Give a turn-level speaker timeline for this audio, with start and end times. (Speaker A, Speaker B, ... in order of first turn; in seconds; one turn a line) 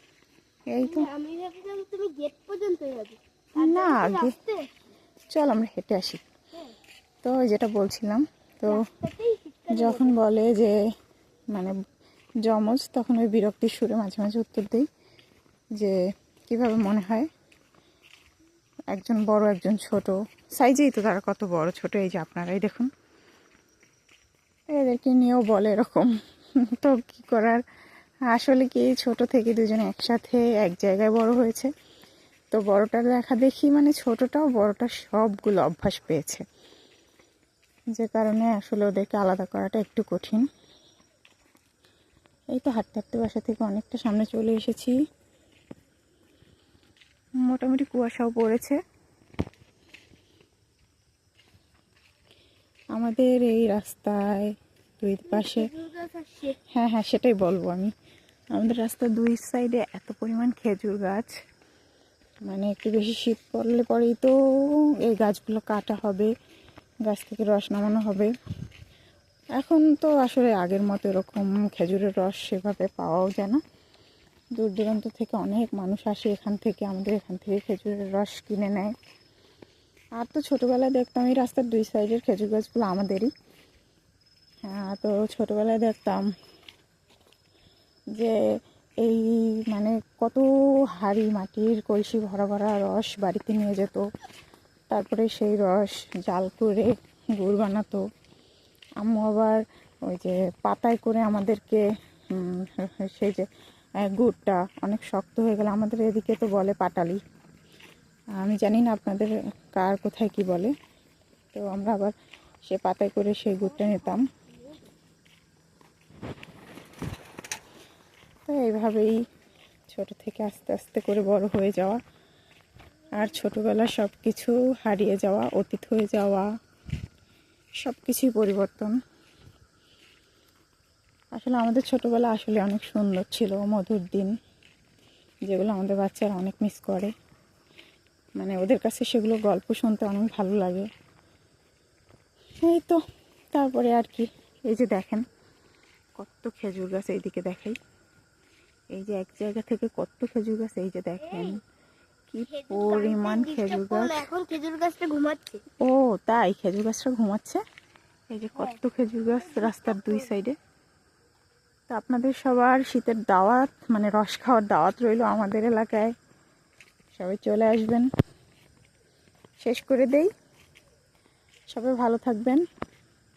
Speaker A: 0.7-1.1
Speaker B: 0.8-4.7
Speaker A: 3.6-4.3
Speaker A: 5.3-6.2
Speaker A: 7.2-8.8
Speaker B: 8.7-10.2
Speaker A: 9.7-10.8
Speaker A: 12.4-14.9
Speaker A: 16.5-17.3
Speaker A: 18.9-22.9
Speaker A: 24.7-26.1
Speaker A: 26.6-27.6
Speaker A: 28.3-31.7
Speaker A: 32.5-36.4
Speaker A: 38.0-40.5
Speaker A: 42.5-44.9
Speaker A: 47.5-48.8
Speaker A: 52.9-55.7
Speaker B: 55.3-56.6
Speaker A: 56.7-57.9
Speaker A: 58.5-61.3
Speaker A: 62.5-64.3
Speaker A: 65.0-66.3
Speaker A: 67.1-68.3
Speaker A: 69.6-73.6
Speaker A: 74.6-78.9
Speaker A: 80.2-83.3
Speaker A: 84.6-86.3
Speaker A: 89.0-94.0
Speaker A: 94.9-98.0
Speaker A: 99.0-103.5
Speaker A: 104.0-107.2
Speaker A: 108.4-110.7
Speaker A: 111.5-112.1
Speaker A: 112.7-114.2
Speaker A: 118.5-119.2
Speaker A: 119.9-122.0
Speaker A: 123.2-126.5
Speaker A: 127.8-129.0
Speaker A: 131.3-134.3
Speaker A: 135.5-137.1
Speaker A: 138.4-140.9
Speaker A: 142.6-143.0
Speaker A: 143.5-145.2
Speaker A: 146.2-147.8
Speaker A: 148.9-151.6
Speaker A: 152.3-154.2
Speaker B: 152.5-155.6
Speaker A: 155.8-157.6
Speaker A: 158.3-160.6
Speaker B: 159.4-160.2
Speaker A: 161.9-166.1
Speaker A: 167.1-168.1
Speaker A: 169.6-170.3
Speaker A: 171.7-172.6